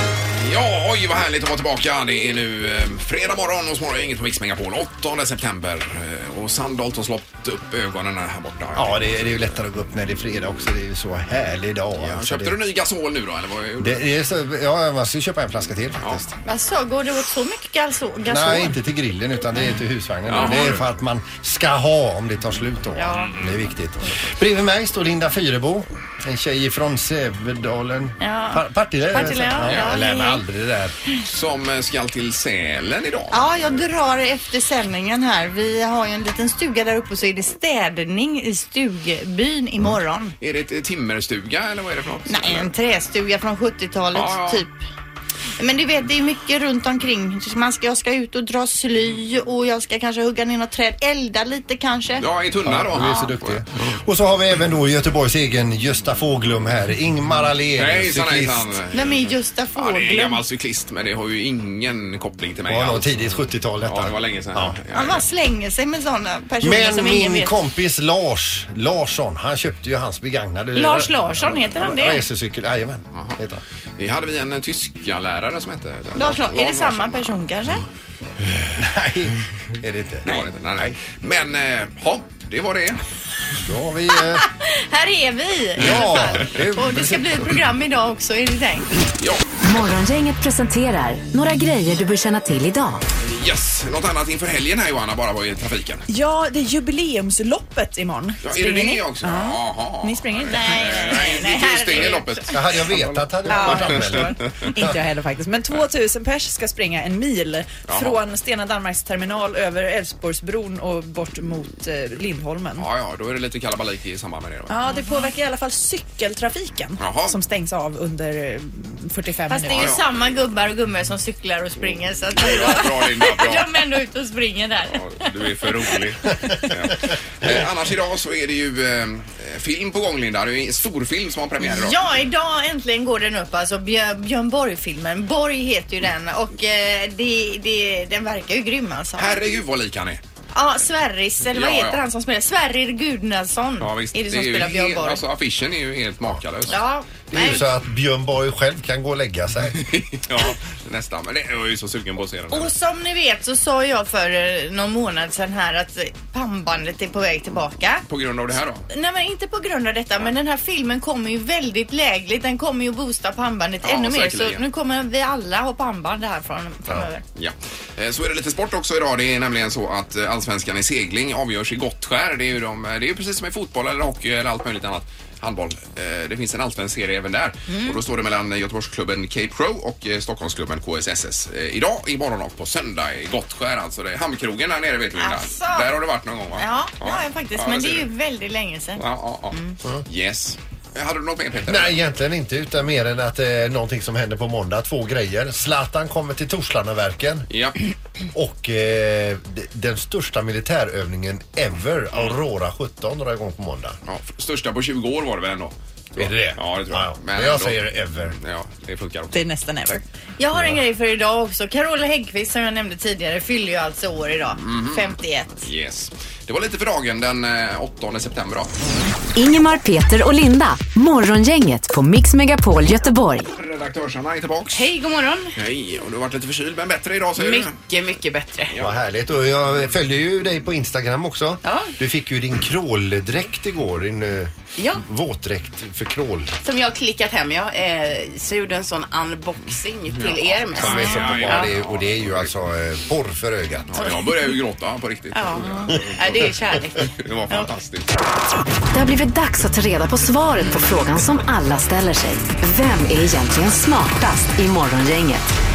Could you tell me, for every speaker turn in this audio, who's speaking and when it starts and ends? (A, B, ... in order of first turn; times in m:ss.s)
0:00.4-0:09.6 A
0:08.8-0:12.6 B
0:12.0-0:14.1 A
0:13.8-0:16.4 B
0:16.5-0:18.8 C
0:18.3-0:31.0 B
0:20.3-0:20.8 A
0:23.0-0:23.4 C
0:28.2-0:30.4 C
0:29.6-0:30.0 A
0:31.3-0:33.8 A
0:33.3-0:40.3 C
0:40.4-0:42.7 A
0:42.3-0:44.8 C
0:44.1-0:44.6 A
0:45.6-0:52.2 C
0:52.2-0:53.6 A
0:52.6-0:58.7 B
0:57.8-1:05.3 A
0:58.9-1:00.4 C
1:02.7-1:04.8 B
1:04.9-1:07.6 C
1:06.6-1:13.6 B
1:10.7-1:12.2 C
1:13.1-1:13.4 A
1:14.0-1:17.3 A
1:16.2-1:17.8 C
1:18.8-1:20.4 B
1:20.2-1:23.0 A
1:23.6-1:24.5 B
1:24.4-1:28.9 C
1:25.8-1:27.6 B
1:29.2-1:29.4 A
1:29.6-1:33.0 D
1:33.2-1:36.0 A
1:36.1-1:41.3 E
1:38.4-1:44.7 A
1:40.5-1:42.5 C
1:42.5-1:45.0 B
1:43.5-1:52.9 E
1:43.6-1:44.0 C
1:47.9-1:48.2 A
1:52.8-1:54.8 A
1:54.7-2:00.0 E
1:54.9-1:55.3 C
1:57.0-1:57.4 A
1:59.5-2:05.2 C
1:59.7-2:00.0 A
2:02.4-2:03.7 A
2:04.9-2:12.0 A
2:11.6-2:19.4 C
2:19.2-2:20.2 A
2:20.5-2:25.2 C
2:21.5-2:22.0 A
2:23.8-2:27.8 A
2:26.7-2:27.6 C
2:27.3-2:29.8 B
2:29.7-2:32.7 A
2:32.5-2:38.0 C
2:38.1-2:38.8 A
2:38.9-2:47.2 C
2:43.8-2:44.6 A
2:47.4-3:08.1 A
2:57.7-2:58.0 C
3:05.2-3:05.9 C
3:06.6-3:09.8 C
3:09.0-3:12.0 A
3:11.7-3:17.5 B
3:17.5-3:17.8 A
3:18.3-3:24.0 B
3:24.1-3:27.8 A
3:26.2-3:28.4 B
3:28.4-3:29.4 A
3:29.3-3:30.0 E
3:30.4-3:35.7 C
3:30.5-3:30.8 B
3:34.6-3:38.7 A
3:39.4-3:43.5 D
3:43.4-3:44.9 A
3:44.7-3:45.5 F
3:45.6-3:47.8 A
3:47.4-3:48.7 F
3:48.8-3:56.6 B
3:51.6-3:51.9 F
3:54.8-3:55.0 F
3:56.6-4:01.7 F
4:00.1-4:02.6 A
4:00.7-4:04.0 B
4:03.9-4:06.5 A
4:04.0-4:04.6 F
4:05.3-4:07.7 F
4:07.0-4:08.1 A
4:08.9-4:15.5 D